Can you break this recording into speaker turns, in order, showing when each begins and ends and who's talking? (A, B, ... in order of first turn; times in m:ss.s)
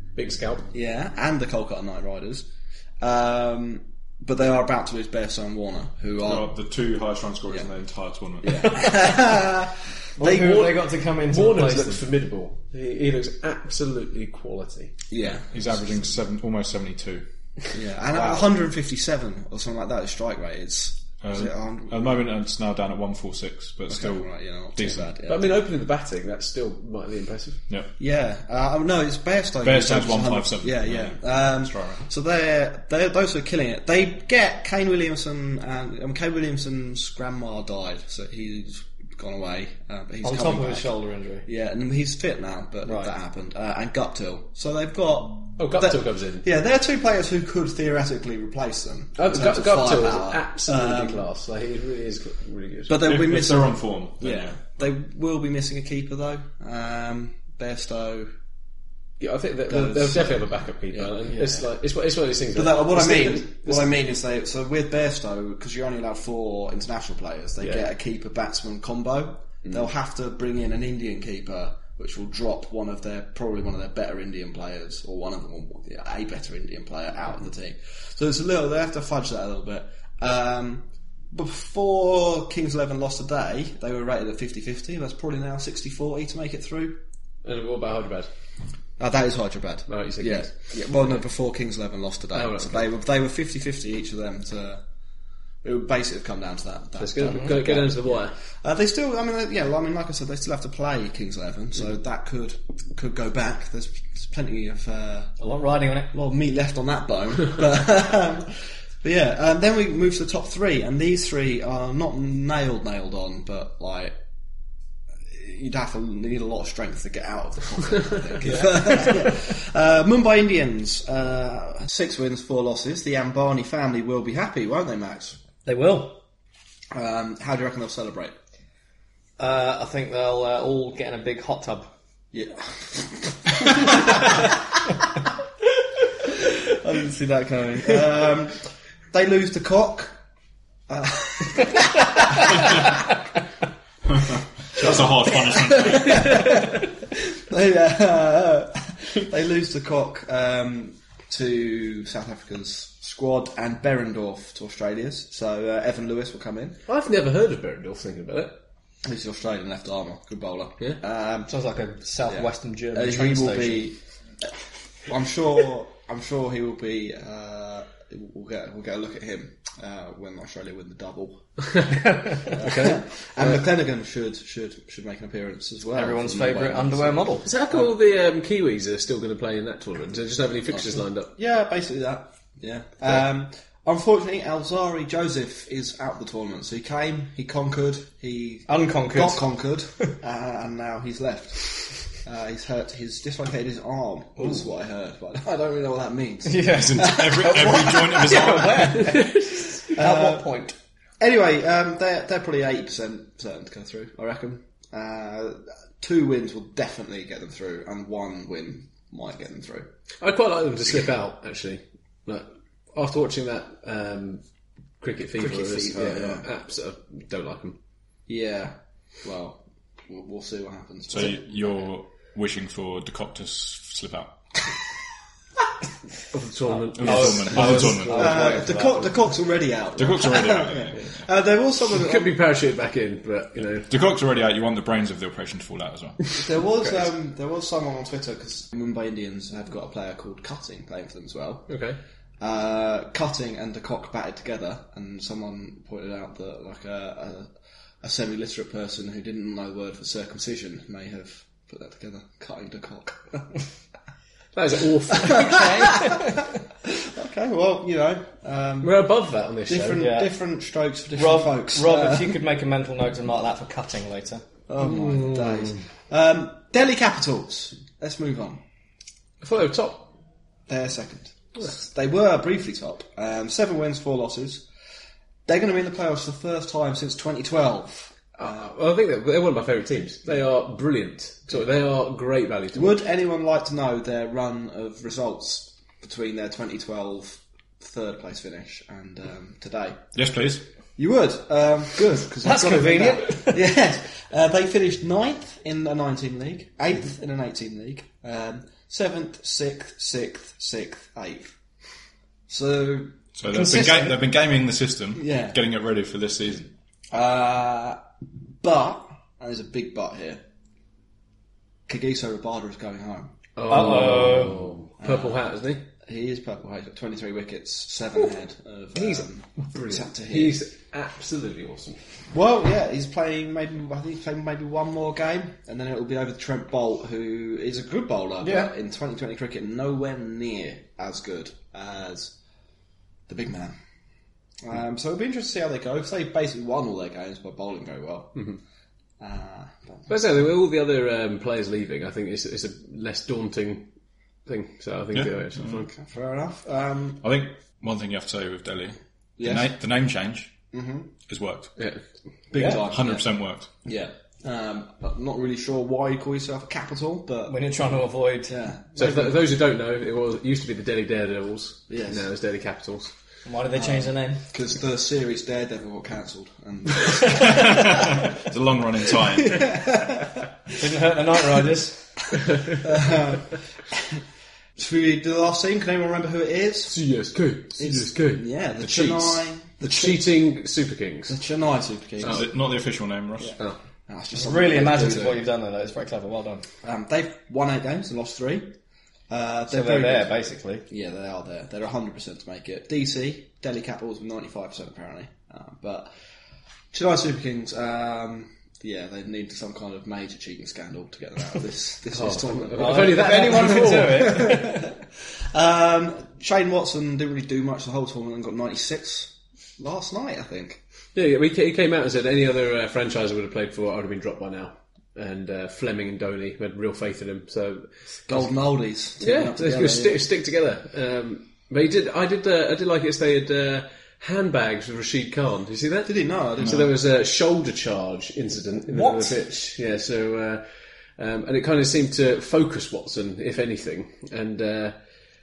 0:00.1-0:00.7 A
0:00.7-0:02.5 B
0:03.0-0:06.5 B
0:06.2-0:08.9 C
0:08.4-0:10.7 B
0:10.2-0:12.0 D
0:10.2-0:15.0 A
0:15.1-0:15.8 B
0:15.2-0:17.2 C
0:17.7-0:22.2 B
0:21.2-0:25.1 C
0:23.9-0:25.6 B
0:25.2-0:27.6 A
0:28.0-0:51.2 B
0:29.6-0:32.0 C
0:40.2-0:41.4 D
0:42.8-0:43.1 D
0:45.6-0:46.5 A
0:49.2-0:53.0 A
0:52.9-0:58.3 B
0:53.0-0:54.7 C
0:59.2-1:03.9 A
0:59.7-1:01.2 B
1:01.3-1:01.6 D
1:02.5-1:27.0 B
1:07.6-1:07.9 A
1:27.4-1:28.3 A
1:29.0-1:34.8 B
1:29.9-1:30.8 A
1:32.3-1:32.9 A
1:35.6-1:45.3 B
1:37.0-1:38.3 A
1:45.4-1:46.1 D
1:46.1-1:54.2 B
1:55.2-2:05.4 B
1:58.4-1:59.0 D
2:05.6-2:06.2 D
2:06.9-2:08.3 B
2:09.4-2:11.9 D
2:12.3-2:14.5 B
2:16.7-2:18.6 B
2:19.1-2:20.1 B
2:20.9-2:22.9 B
2:24.2-2:26.5 C
2:24.8-2:36.8 B
2:36.9-2:38.6 A
2:39.0-2:41.5 B
2:41.5-2:43.9 D
2:42.3-2:44.5 B
2:45.0-2:51.7 B
2:51.6-2:53.6 A
2:52.5-2:57.9 B
2:55.9-2:57.5 D
2:57.4-3:01.3 A
3:00.7-3:18.8 B
3:08.7-3:09.5 D
3:16.4-3:20.7 D
3:16.7-3:19.1 C
3:19.9-3:20.5 B
3:21.2-3:29.9 B
3:30.2-3:34.4 A
3:35.0-3:37.8 A
3:35.3-3:36.5 B
3:38.3-3:41.5 B
3:41.1-3:44.4 C
3:46.3-3:48.5 A
3:47.0-3:48.5 C
3:47.0-3:49.1 D
3:47.7-3:52.4 B
3:50.0-3:51.2 C
3:51.9-3:53.9 A
3:53.9-3:56.2 C
3:56.4-4:01.7 B
3:56.8-3:57.1 A
4:01.7-4:02.0 A
4:02.4-4:13.5 B
4:14.5-4:16.1 A
4:15.2-4:16.3 B
4:16.8-4:19.1 B
4:18.8-4:20.1 A
4:19.6-4:22.4 B
4:19.9-4:20.3 D
4:21.2-4:24.4 D
4:24.7-4:28.6 B
4:24.8-4:25.7 A
4:29.4-4:30.1 A
4:30.7-4:34.7 B
4:35.4-4:38.2 B
4:38.4-4:43.0 A
4:42.7-4:50.0 B
4:50.1-4:50.6 C
4:51.0-5:01.6 B
4:52.4-4:53.7 D
5:02.5-5:04.1 B
5:03.4-5:06.7 C
5:03.5-5:04.2 D
5:05.1-5:05.6 B
5:07.1-5:08.0 B
5:08.6-5:10.4 B
5:11.9-5:13.3 B
5:13.6-5:15.9 A
5:13.7-5:14.6 D
5:15.0-5:15.5 B
5:16.0-5:20.6 B
5:18.9-5:22.0 A
5:22.3-5:32.3 B
5:33.3-5:33.8 B
5:34.6-5:38.4 B
5:38.3-5:38.6 A
5:39.2-5:40.1 B
5:40.1-5:43.9 A
5:44.4-5:45.9 A
5:45.1-5:45.8 C
5:45.7-5:47.3 B
5:47.2-5:50.5 C
5:49.4-5:49.7 B
5:50.7-5:51.1 B
5:51.3-5:51.7 C
5:52.5-5:53.2 B
5:52.6-5:53.7 C
5:53.8-5:57.6 B
5:57.5-5:58.6 D
5:58.5-5:59.4 B
5:59.0-6:03.1 A
6:01.9-6:02.2 B
6:03.4-6:04.4 D
6:03.7-6:08.0 B
6:07.5-6:09.9 C
6:09.4-6:10.3 B
6:10.8-6:12.1 D
6:12.8-6:14.2 B
6:14.8-6:17.0 B
6:16.9-6:21.4 A
6:17.8-6:20.4 B
6:21.3-6:22.4 B
6:22.2-6:23.6 C
6:23.4-6:25.4 B
6:24.3-6:26.6 D
6:26.8-6:28.7 B
6:29.3-6:30.3 B
6:29.7-6:30.8 D
6:30.9-6:36.1 B
6:36.9-6:50.8 B
6:42.1-6:44.5 A
6:42.8-6:44.9 D
6:51.1-6:58.5 A
6:58.3-7:00.2 B
6:59.2-7:15.0 A
7:06.0-7:06.9 B
7:06.6-7:06.8 C
7:08.9-7:09.4 D